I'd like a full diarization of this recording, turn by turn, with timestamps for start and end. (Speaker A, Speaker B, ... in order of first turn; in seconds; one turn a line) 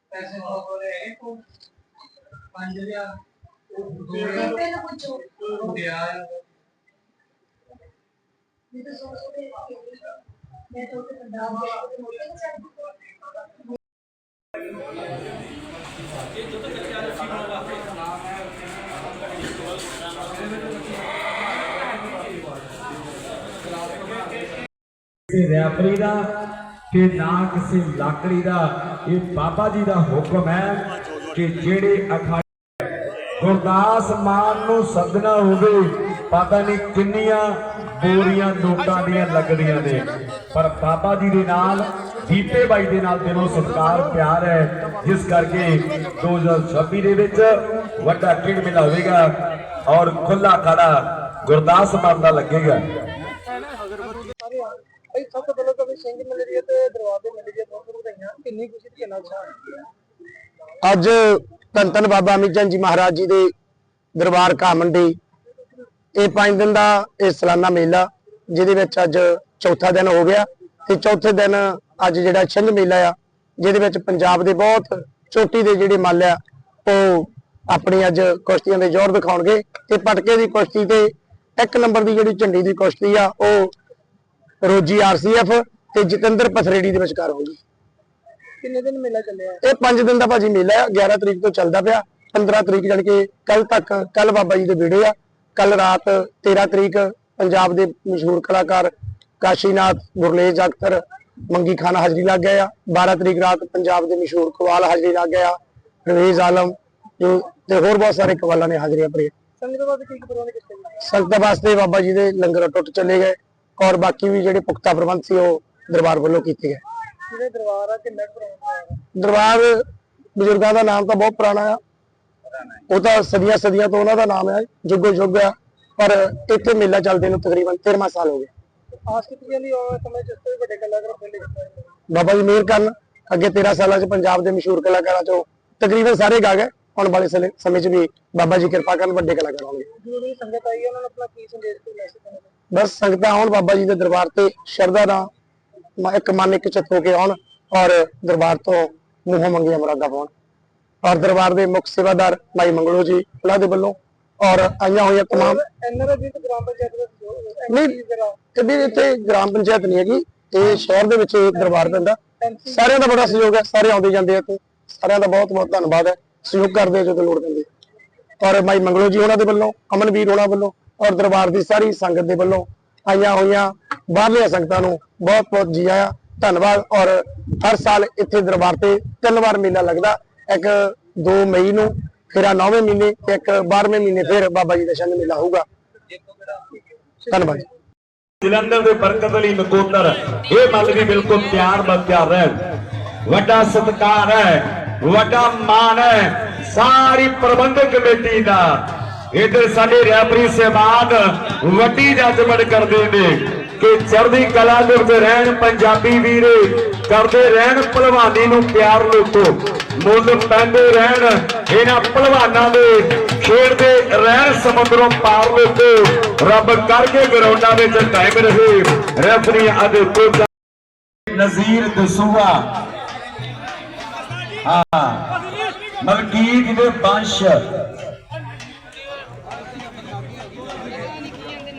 Speaker A: 0.1-1.1
Speaker A: 2.6-3.1
Speaker A: 3.9-4.7
Speaker B: 4.7-5.3
Speaker A: 5.4-6.2
Speaker B: 8.7-9.9
Speaker B: 10.8-12.8
Speaker C: 25.3-26.3
Speaker C: 26.9-32.4
Speaker C: 33.4-49.4
Speaker C: 49.9-52.9
Speaker A: 54.4-59.8
Speaker D: 60.8-63.5
Speaker D: 64.2-65.2
Speaker D: 66.2-83.7
Speaker D: 84.6-87.6
Speaker A: 88.6-89.6
Speaker D: 89.6-109.3
Speaker A: 109.6-111.0
Speaker D: 111.0-116.8
Speaker A: 117.3-119.0
Speaker D: 119.2-119.8
Speaker D: 120.4-121.8
Speaker D: 122.9-128.5
Speaker A: 129.1-131.9
Speaker D: 132.1-139.9
Speaker A: 140.0-142.5
Speaker D: 142.7-145.3
Speaker D: 146.0-150.3
Speaker D: 151.0-155.6
Speaker A: 155.3-158.5
Speaker D: 157.7-158.0
Speaker D: 158.5-167.7
Speaker A: 161.6-163.0
Speaker D: 168.4-185.7
Speaker D: 187.3-187.7
Speaker C: 188.4-192.6
Speaker C: 193.3-220.5
Speaker C: 221.3-222.7
Speaker C: 224.6-225.3
Speaker C: 226.0-227.7